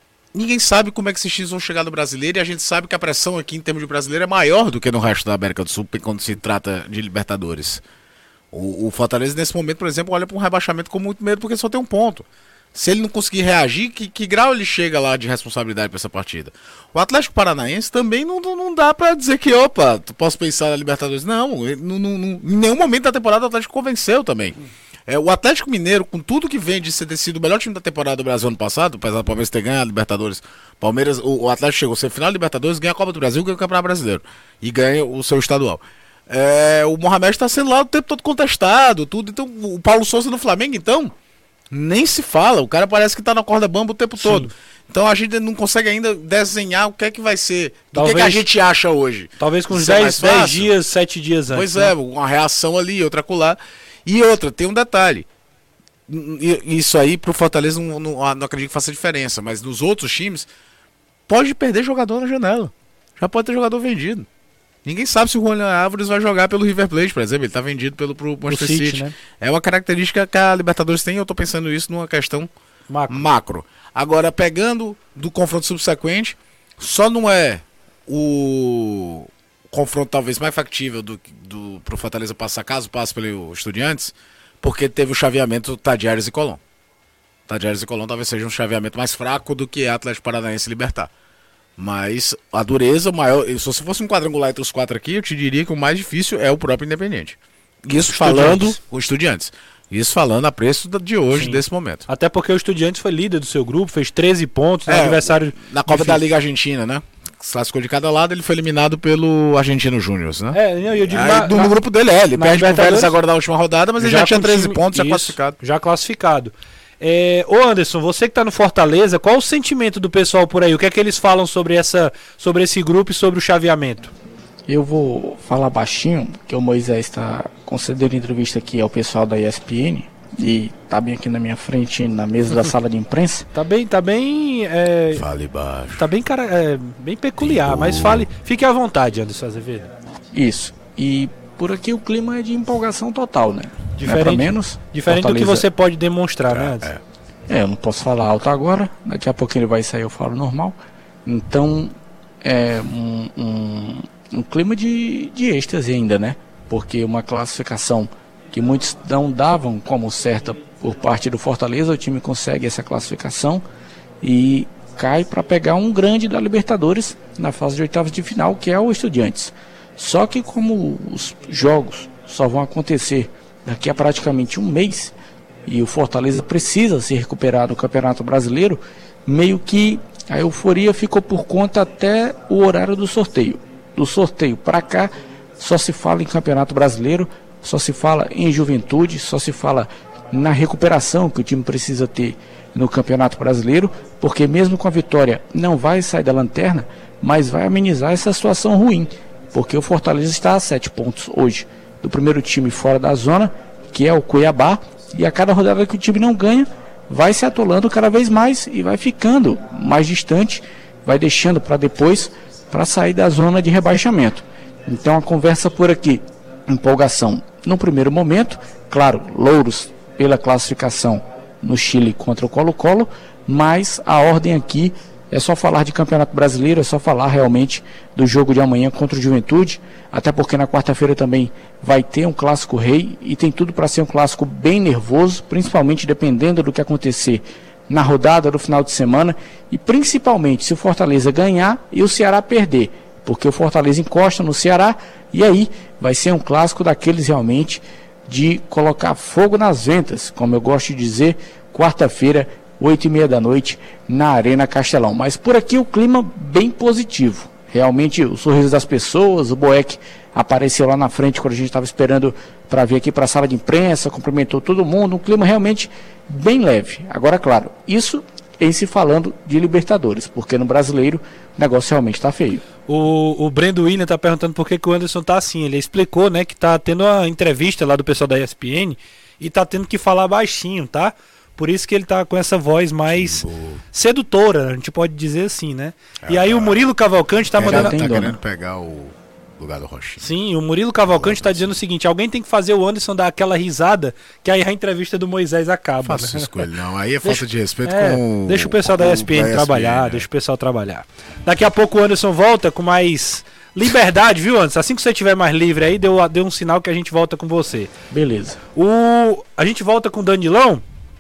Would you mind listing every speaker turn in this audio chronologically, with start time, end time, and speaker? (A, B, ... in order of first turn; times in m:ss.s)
0:00.3-0:07.8 A
0:08.5-0:41.1 A
0:41.7-0:50.7 A
0:44.2-0:44.5 B
0:47.9-0:48.4 B
0:49.4-0:51.9 B
0:51.5-0:55.3 A
0:56.1-1:00.5 A
1:01.3-1:04.3 A
1:04.8-1:12.5 A
1:08.5-1:09.1 B
1:12.9-1:13.3 B
1:13.1-1:26.6 A
1:27.5-1:31.1 A
1:31.8-1:42.1 A
1:38.0-1:38.8 B
1:41.3-1:46.2 B
1:44.9-1:55.6 A
1:50.5-1:51.8 B
1:52.3-1:53.1 B
1:54.0-2:04.1 B
2:04.7-2:13.5 C
2:13.5-2:15.2 B
2:15.1-2:16.1 A
2:16.0-2:19.9 B
2:17.4-2:18.3 A
2:20.3-2:25.7 C
2:24.0-2:26.9 B
2:26.5-2:27.0 A
2:27.5-2:43.6 C
2:44.2-2:55.1 C
2:55.7-4:32.6 C
4:32.9-4:48.0 B
4:43.1-4:43.8 A
4:46.2-4:46.8 A
4:47.5-4:50.3 A
4:47.6-4:48.4 C
4:50.2-4:56.7 B
4:51.0-4:51.7 A
4:56.0-5:00.3 A
4:57.2-5:07.9 B
5:08.1-5:08.6 C
5:08.8-5:10.8 B